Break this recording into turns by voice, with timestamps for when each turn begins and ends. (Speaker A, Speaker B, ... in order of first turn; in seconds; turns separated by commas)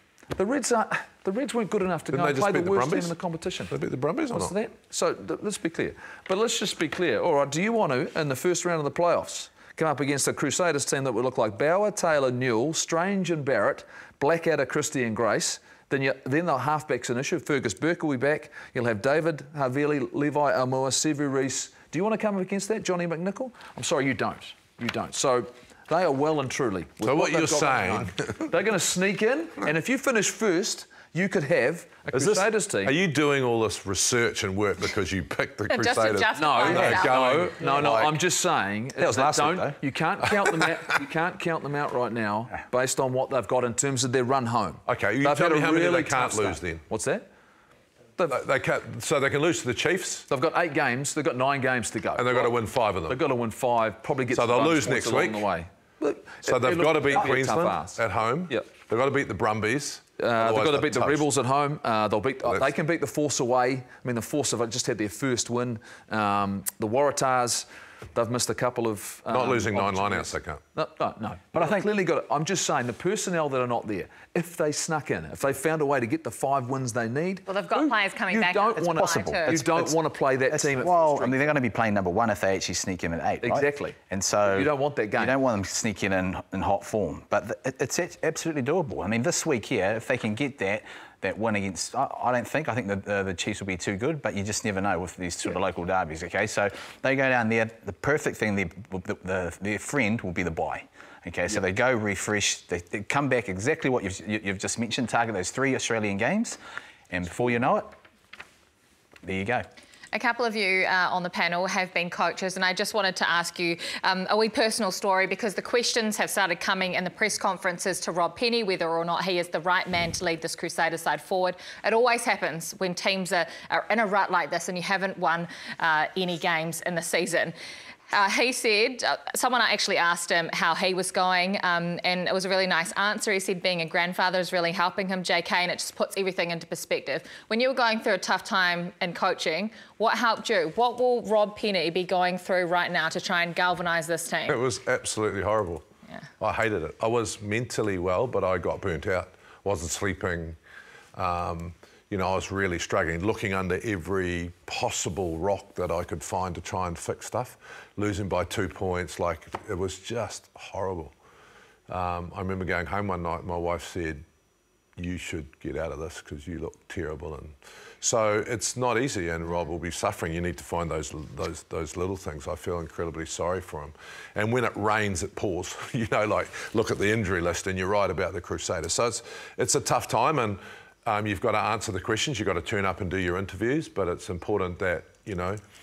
Speaker A: 0.3-3.7, Speaker B: 2.1-3.1, Speaker B: 3.7-4.5, Speaker A: 4.3-33.0, Speaker B: 27.0-28.6, Speaker B: 32.1-38.2, Speaker C: 35.7-37.2, Speaker A: 36.4-47.3, Speaker D: 39.0-39.8, Speaker B: 40.3-40.6, Speaker B: 44.9-46.8, Speaker B: 48.2-50.3, Speaker A: 50.3-58.7, Speaker B: 52.1-53.2, Speaker B: 54.3-55.5, Speaker B: 56.5-61.2, Speaker A: 60.2-81.5, Speaker B: 69.3-70.6, Speaker D: 71.5-71.9, Speaker C: 77.5-79.6, Speaker D: 79.0-106.6, Speaker A: 83.4-84.0, Speaker A: 84.5-85.3, Speaker D: 107.1-108.0, Speaker D: 109.2-109.7, Speaker C: 110.1-127.6, Speaker C: 128.1-144.6, Speaker B: 144.5-145.8, Speaker B: 146.4-150.6, Speaker B: 151.2-161.1, Speaker B: 161.9-164.2, Speaker B: 165.0-185.6